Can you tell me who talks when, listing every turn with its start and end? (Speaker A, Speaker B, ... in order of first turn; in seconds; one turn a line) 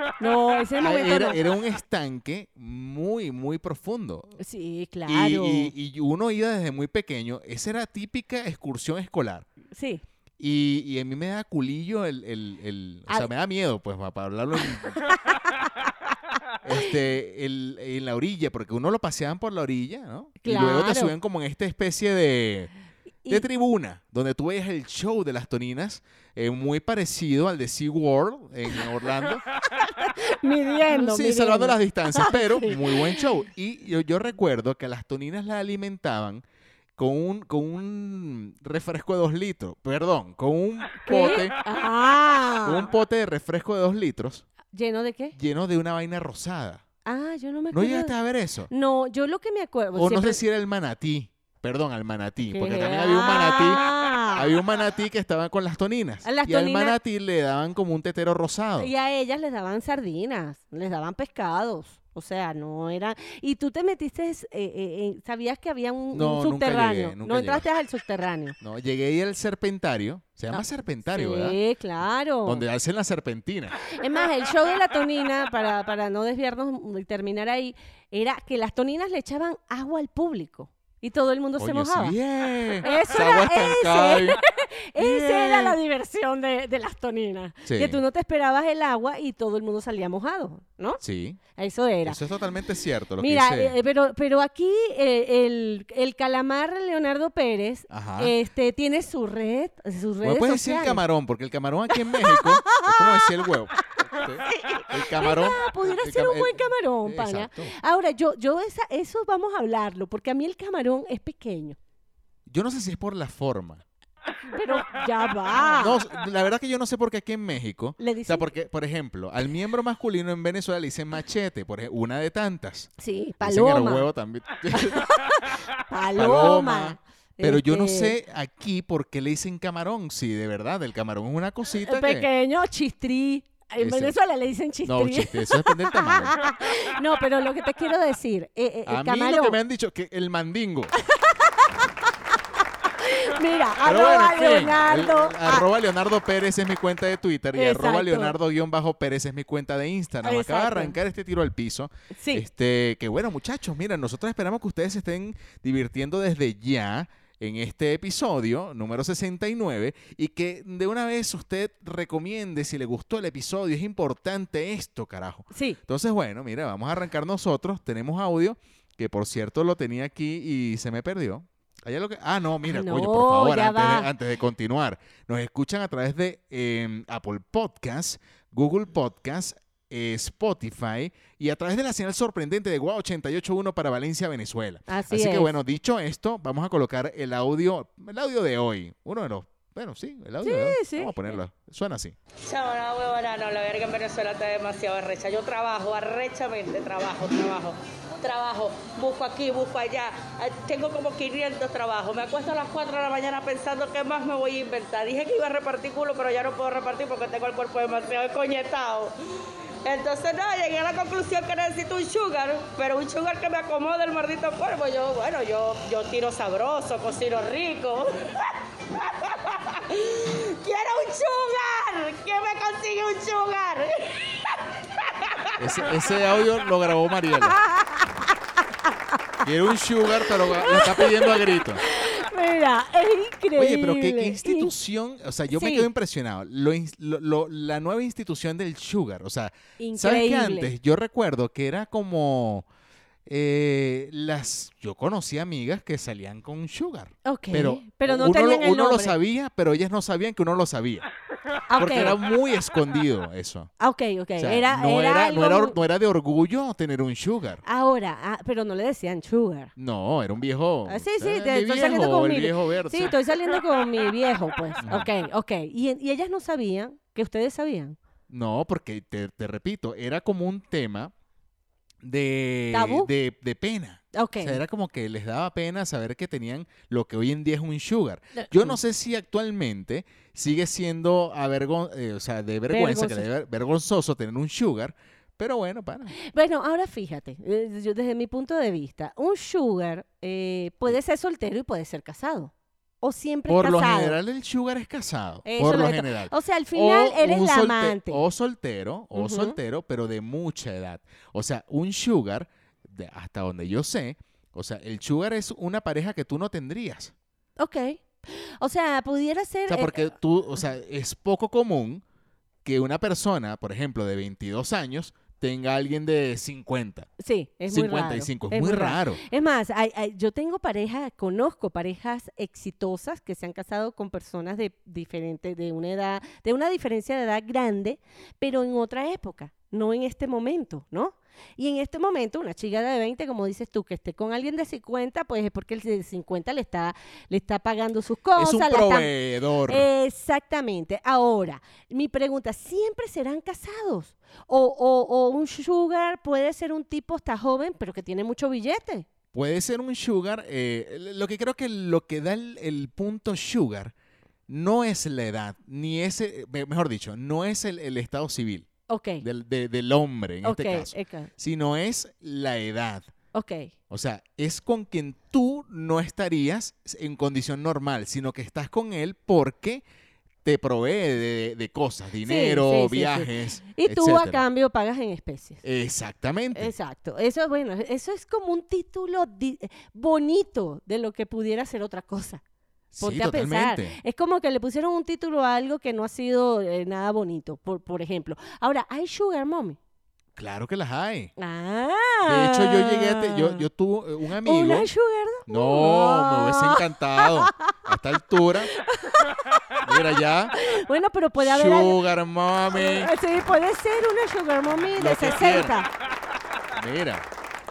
Speaker A: 0.2-1.4
Speaker B: 0.8-4.3
Speaker A: 4.4-5.7
Speaker B: 5.1-9.5
Speaker A: 9.7-10.0
Speaker B: 10.4-15.0
Speaker A: 15.1-15.3
Speaker B: 16.6-22.7
Speaker A: 20.4-21.1
Speaker B: 23.3-29.4
Speaker A: 29.8-33.2
Speaker B: 30.9-36.4
Speaker B: 37.0-41.6
Speaker A: 41.0-42.9
Speaker B: 42.6-44.5
Speaker A: 44.7-45.4
Speaker B: 45.3-46.8
Speaker A: 47.0-48.1
Speaker B: 47.7-48.7
Speaker A: 48.7-50.4
Speaker B: 49.9-58.9
Speaker A: 52.4-54.6
Speaker A: 56.2-57.0
Speaker A: 58.8-68.5
Speaker B: 66.1-67.6
Speaker B: 68.6-71.6
Speaker A: 70.5-72.6
Speaker B: 72.4-73.8
Speaker A: 73.8-82.2
Speaker B: 81.6-84.4
Speaker A: 82.8-91.0
Speaker B: 85.0-85.8
Speaker B: 87.6-88.0
Speaker B: 91.0-91.4
Speaker A: 91.5-92.2
Speaker B: 92.0-93.8
Speaker A: 93.2-101.0
Speaker B: 97.9-98.3
Speaker B: 100.2-107.7
Speaker A: 102.0-103.4
Speaker A: 104.5-111.8
Speaker B: 112.5-113.8
Speaker A: 114.4-116.0
Speaker B: 115.6-125.1
Speaker A: 118.0-118.5
Speaker A: 123.0-124.1
Speaker A: 124.7-128.2
Speaker B: 126.2-132.3
Speaker A: 131.8-139.6
Speaker B: 133.8-134.2
Speaker B: 134.8-136.3
Speaker B: 138.8-140.9
Speaker A: 141.2-141.8
Speaker A: 143.0-145.7
Speaker B: 143.8-192.1
Speaker A: 147.5-148.3
Speaker A: 150.2-150.9
Speaker A: 152.1-152.4
Speaker A: 165.5-165.8
Speaker A: 172.6-174.1
Speaker A: 184.9-185.5
Speaker A: 190.4-191.4
Speaker C: 192.4-209.1
Speaker C: 209.8-225.6
Speaker B: 225.6-227.6
Speaker A: 227.5-228.3
Speaker B: 229.4-231.8
Speaker A: 230.2-234.7
Speaker B: 233.6-242.7
Speaker A: 235.5-235.9
Speaker A: 239.8-240.7
Speaker B: 243.2-251.1
Speaker A: 247.2-249.2
Speaker A: 251.7-252.2
Speaker B: 251.8-253.7
Speaker A: 253.8-255.8
Speaker B: 254.4-257.6
Speaker A: 257.6-259.7
Speaker B: 259.8-263.2
Speaker A: 260.9-268.0
Speaker B: 264.8-265.1
Speaker B: 268.3-271.1
Speaker B: 272.0-286.1
Speaker A: 272.7-273.1
Speaker A: 274.1-274.6
Speaker A: 278.3-278.8
Speaker A: 282.7-283.3
Speaker A: 286.2-294.2
Speaker B: 293.5-307.1
Speaker A: 295.4-298.2
Speaker A: 299.1-299.6
Speaker A: 307.6-310.1
Speaker B: 309.7-312.0
Speaker B: 312.6-317.1
Speaker A: 317.2-339.1
Speaker B: 317.7-319.2
Speaker B: 338.3-339.9
Speaker A: 339.7-349.1
Speaker B: 349.3-353.9
Speaker B: 354.5-358.7
Speaker A: 358.9-359.2
Speaker B: 359.2-363.1
Speaker A: 360.4-361.3
Speaker A: 363.3-363.7
Speaker B: 363.9-369.8
Speaker B: 370.4-374.4
Speaker A: 372.2-375.6
Speaker B: 375.6-376.7
Speaker A: 376.5-382.4
Speaker B: 382.9-383.9
Speaker A: 383.0-389.8
Speaker B: 390.4-391.3
Speaker A: 391.4-393.7
Speaker B: 392.2-394.9
Speaker A: 394.4-397.8
Speaker B: 395.4-398.7
Speaker A: 398.7-402.0
Speaker B: 399.8-400.5
Speaker B: 401.4-403.1
Speaker A: 402.7-405.9
Speaker B: 404.9-405.8
Speaker B: 406.7-407.2